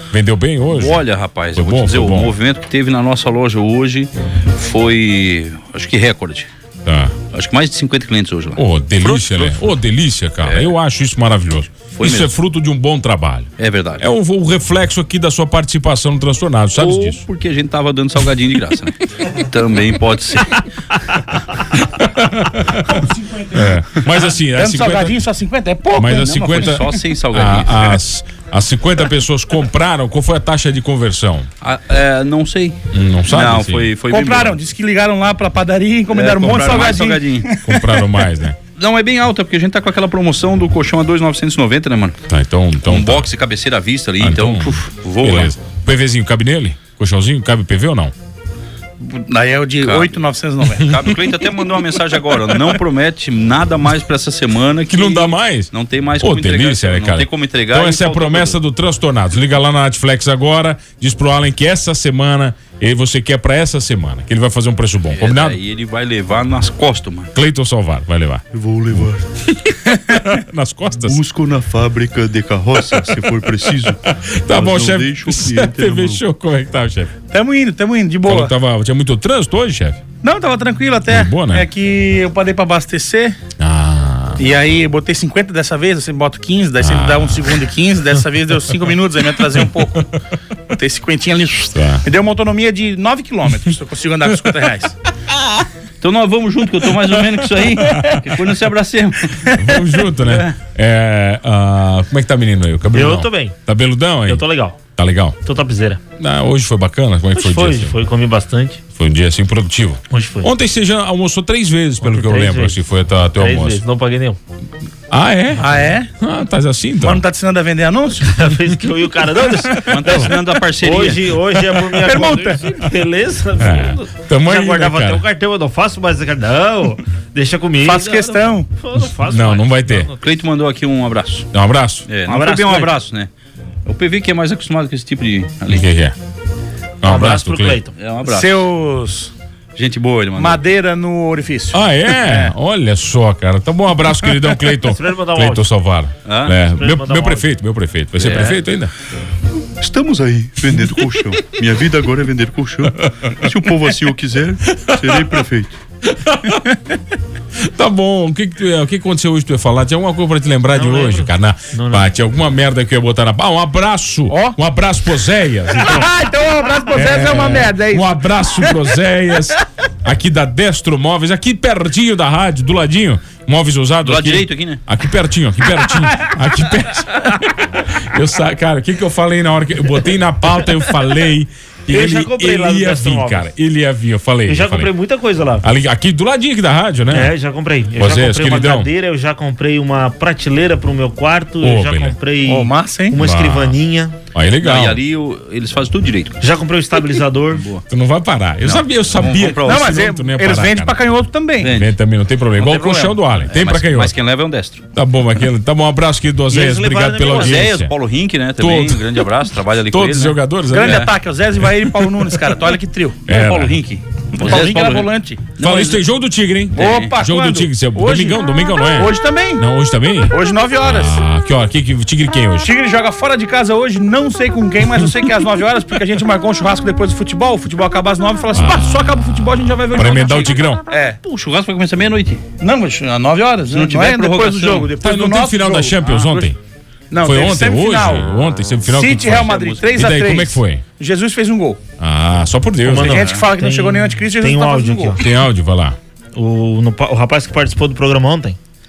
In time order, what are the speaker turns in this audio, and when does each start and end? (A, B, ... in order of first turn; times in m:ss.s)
0:00.1-0:01.0 A
0:00.7-0:06.5 B
0:01.6-0:02.3 A
0:06.8-0:07.2 A
0:07.3-0:09.7 B
0:08.6-0:13.5 A
0:10.4-0:10.7 B
0:12.0-0:12.3 B
0:13.6-0:14.0 B
0:14.0-0:17.2 A
0:16.8-0:20.6 B
0:21.8-0:25.2 A
0:24.1-0:26.8 C
0:25.9-0:31.5 A
0:26.1-0:28.0 B
0:31.6-0:34.6 B
0:32.9-0:33.9 A
0:34.0-0:38.1 C
0:36.1-0:37.5 B
0:37.6-0:38.6 A
0:38.8-0:42.2 B
0:42.3-0:43.3 A
0:42.8-0:45.5 B
0:44.2-0:48.1 A
0:49.0-0:50.9 C
0:49.8-0:50.1 B
0:50.6-0:58.6 B
0:54.9-1:05.6 A
1:05.1-1:07.3 B
1:07.3-1:08.4 A
1:08.5-1:09.2 D
1:09.9-1:11.2 A
1:11.0-1:14.0 D
1:14.0-1:17.1 A
1:14.5-1:16.2 D
1:17.3-1:18.5 C
1:18.2-1:20.0 A
1:20.2-1:23.4 C
1:21.1-1:21.6 A
1:23.6-1:24.4 A
1:24.4-1:30.0 C
1:26.8-1:27.4 A
1:30.7-1:34.9 C
1:31.7-1:32.0 A
1:36.0-1:39.4 B
1:39.6-1:45.3 A
1:40.2-1:40.6 B
1:42.9-1:43.6 E
1:44.2-1:44.8 E
1:45.4-1:46.0 E
1:46.2-1:48.0 A
1:47.3-1:48.8 E
1:49.0-1:53.8 A
1:50.1-1:50.5 E
1:52.0-1:52.8 E
1:53.4-1:54.4 E
1:55.1-1:57.2 A
1:55.6-1:56.1 C
1:57.0-1:58.4 C
1:58.2-2:10.2 E
1:59.9-2:01.3 B
2:01.9-2:02.6 C
2:03.6-2:05.2 A
2:07.8-2:08.7 C
2:09.3-2:10.1 A
2:10.2-2:11.5 B
2:11.5-2:12.1 A
2:12.1-2:13.3 B
2:12.3-2:12.9 E
2:13.9-2:15.9 B
2:15.7-2:16.1 A
2:17.0-2:17.8 A
2:17.0-2:17.9 E
2:18.0-2:18.7 B
2:18.2-2:19.3 C
2:19.8-2:20.6 B
2:20.4-2:22.5 C
2:21.7-2:28.9 A
2:24.9-2:25.7 E
2:26.2-2:26.6 B
2:26.8-2:27.5 E
2:28.2-2:28.6 B
2:29.8-2:35.8 D
2:34.7-2:35.1 A
2:36.1-2:36.6 A
2:37.8-2:46.1 A
2:40.7-2:42.1 E
2:44.3-2:44.6 C
2:45.8-2:48.9 C
2:46.9-3:04.9 A
2:54.0-2:54.8 B
3:01.9-3:03.5 E
3:04.5-3:05.7 E
3:05.6-3:07.4 A
3:07.1-3:14.2 E
3:08.0-3:08.9 A
3:11.6-3:12.1 A
3:12.4-3:13.1 C
3:13.2-3:13.8 A
3:14.3-3:15.0 A
3:14.6-3:16.4 B
3:16.4-3:17.6 E
3:17.6-3:17.8 B
3:17.9-3:21.0 A
3:18.6-3:20.1 B
3:19.6-3:21.8 C
3:21.6-3:21.9 B
3:21.6-3:24.1 A
3:22.6-3:24.8 B
3:24.9-3:27.9 A
3:26.5-3:27.7 E
3:27.3-3:30.4 B
3:28.6-3:29.1 A
3:29.9-3:31.1 A
3:30.7-3:33.3 C
3:33.3-3:33.8 A
3:33.3-3:36.0 B
3:34.4-3:35.6 C
3:35.6-3:42.7 A
3:36.7-3:38.4 C
3:36.8-3:37.2 B
3:38.9-3:39.7 C
3:40.3-3:41.2 C
3:42.6-3:51.2 C
3:48.5-3:49.0 A
3:49.9-3:50.8 A
3:51.2-3:52.4 B
3:52.6-3:56.5 C
3:53.7-3:54.9 B
3:55.0-3:56.6 A
3:57.1-3:58.3 C
3:57.2-4:00.8 A
3:58.9-4:01.8 C
3:59.0-4:00.1 B
4:02.0-4:03.3 A
4:02.8-4:05.2 E
4:02.9-4:05.2 C
4:03.1-4:03.4 B
4:05.2-4:06.0 A
4:06.3-4:08.6 E